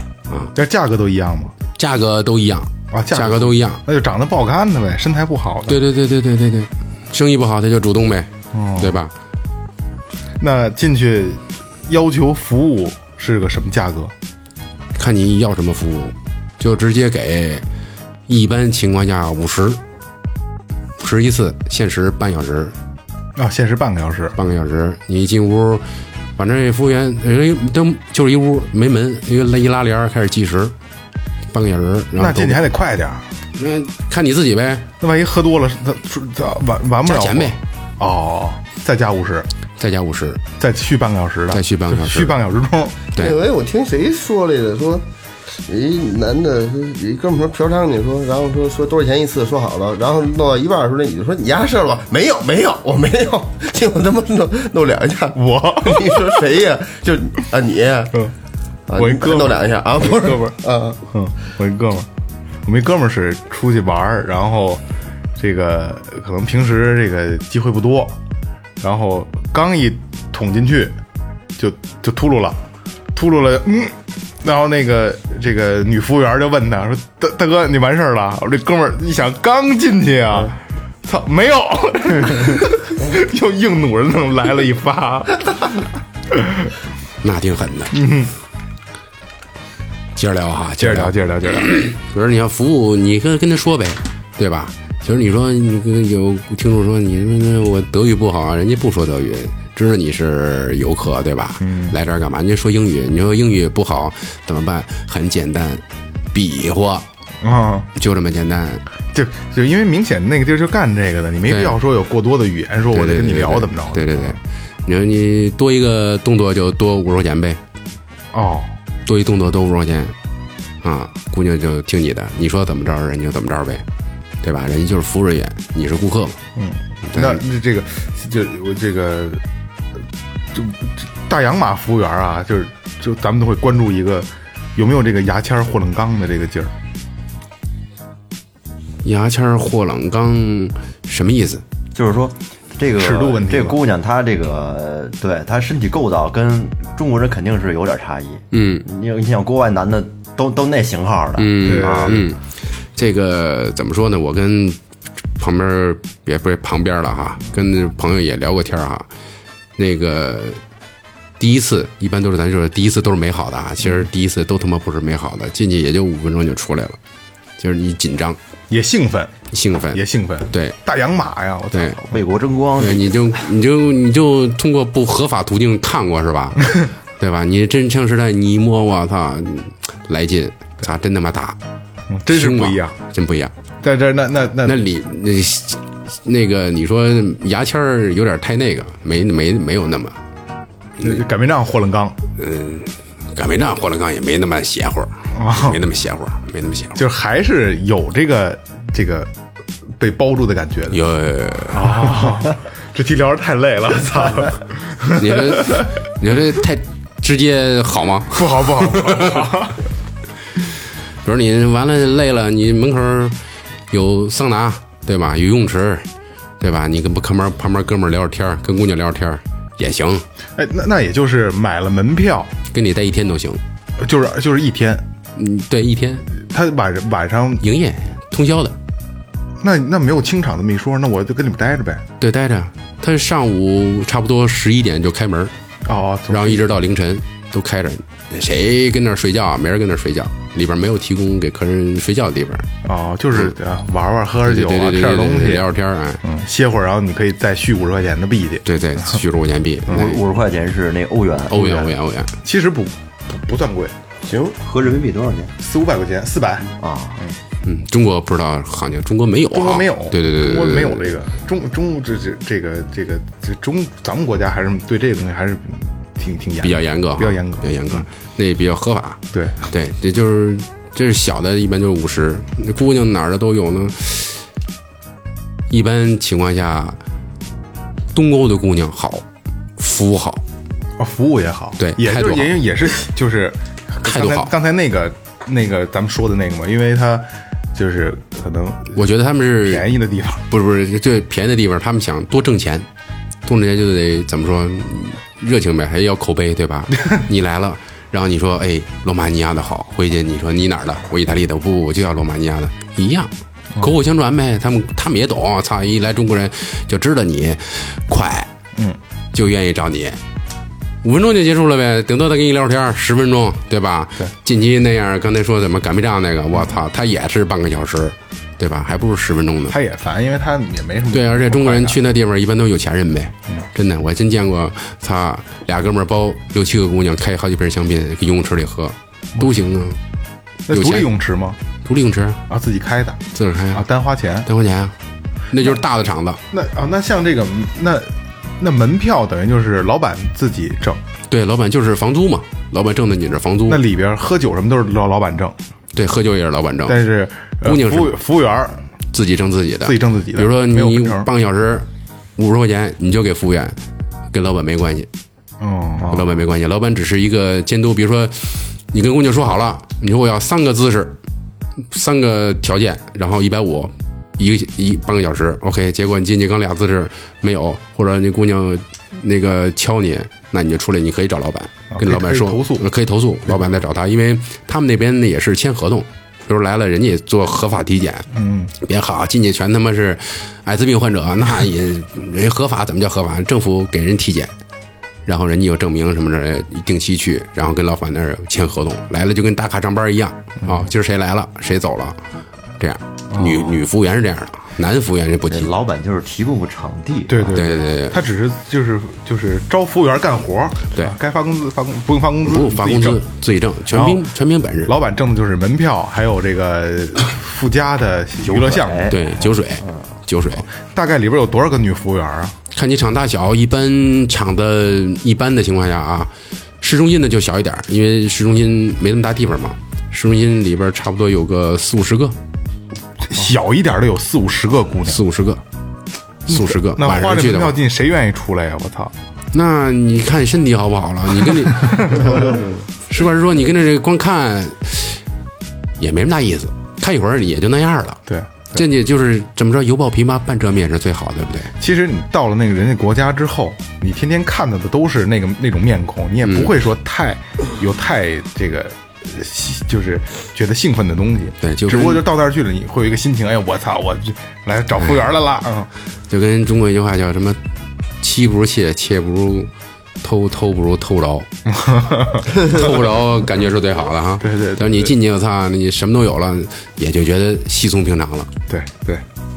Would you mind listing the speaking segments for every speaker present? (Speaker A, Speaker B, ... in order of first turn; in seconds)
Speaker A: 0.5-1.5, 2.9-5.8, 8.5-9.0, 10.4-14.1, 23.4-24.4, 32.2-33.2, 35.0-39.5, 40.6-43.0, 55.3-56.4, 58.9-62.1, 62.6-64.8, 65.4-68.2, 68.8-71.0, 71.6-72.6, 73.1-86.7, 87.9-88.3, 90.8-91.7, 101.6-102.0, 107.4-107.9, 109.1-114.4, 118.3-118.7, 126.5-129.4, 130.5-136.7, 143.0-143.8, 151.6-152.3, 168.7-169.3, 169.9-172.2, 182.1-182.9, 183.8-184.8, 191.0-192.2, 195.3-195.8, 196.9-199.3, 199.9-201.0, 201.7-205.8, 208.3-209.8, 220.6-222.5, 224.0-225.0, 226.4-227.6, 229.6-232.0, 235.8-236.7, 242.8-245.7, 246.2-249.2, 252.4-253.9, 255.6-257.4, 259.5-268.1, 269.3-269.6, 281.0-289.0, 289.6-290.4, 319.7-322.0, 330.7-331.6, 332.5-333.2, 333.7-334.5, 336.5-341.0, 343.7-345.6, 346.9-348.8, 349.8-351.3, 355.6-356.2, 371.9-372.8, 378.3-378.7, 393.3-393.7, 397.3-403.2, 403.9-404.2, 404.9-409.1, 410.7-412.6, 423.2-425.2, 426.5-429.1, 432.0-432.3, 438.3-438.8, 441.8-455.9, 461.7-462.9, 464.4-465.1, 468.7-469.2
Speaker B: 1.8-3.8, 5.7-9.1, 14.9-17.6, 18.3-19.8, 21.0-22.7, 24.4-25.9, 26.4-30.7, 31.5-32.6, 33.5-34.9, 37.0-37.6, 39.8-40.4, 41.5-42.4, 87.2-88.0, 90.2-107.0, 108.0-108.8, 111.5-111.8, 112.9-117.6, 119.0-120.1, 120.8-123.8, 124.4-126.4, 127.0-127.4, 139.0-141.6, 148.5-148.8, 151.4-152.4, 152.9-154.8, 155.4-159.1, 159.8-160.6, 161.4-167.0, 167.6-168.4, 169.5-170.8, 171.7-172.0, 172.8-181.6, 182.3-183.5, 184.6-190.2, 192.4-197.0, 200.9-202.3, 205.2-209.5, 211.2-213.4, 213.9-216.1, 216.6-220.2, 222.7-223.6, 225.4-226.3, 227.6-228.8, 232.2-235.5, 236.3-242.7, 244.4-246.2, 248.6-250.2, 251.5-252.3, 257.6-261.1, 266.6-274.4, 275.7-277.0, 278.1-279.2, 279.8-280.4, 281.8-282.6, 284.0-284.5, 288.9-289.9, 290.5-292.9, 293.4-308.5, 309.3-310.2, 311.0-319.8, 321.1-330.0, 330.7-331.1, 331.8-332.4, 333.3-333.8, 334.4-334.9, 335.5-336.4, 341.3-343.8, 345.9-347.0, 347.6-348.1, 349.1-353.8, 354.3-355.1, 356.1-361.1, 361.9-378.3, 378.8-384.5, 385.3-392.2, 392.8-395.7, 397.5-398.2, 402.4-404.9, 409.1-410.7, 412.7-422.4, 425.1-425.6, 426.5-427.8, 429.5-435.2, 436.0-438.2, 438.7-441.7, 446.4-446.7, 451.6-452.2, 456.3-457.6, 458.2-459.7, 460.2-461.5, 462.5-468.5
Speaker C: 43.2-45.0, 45.6-58.2, 58.9-61.0, 254.3-254.6
Speaker D: 141.9-152.2, 172.1-173.4, 249.9-251.9, 254.5-255.5, 256.8-257.2, 395.5-397.7, 408.4-410.1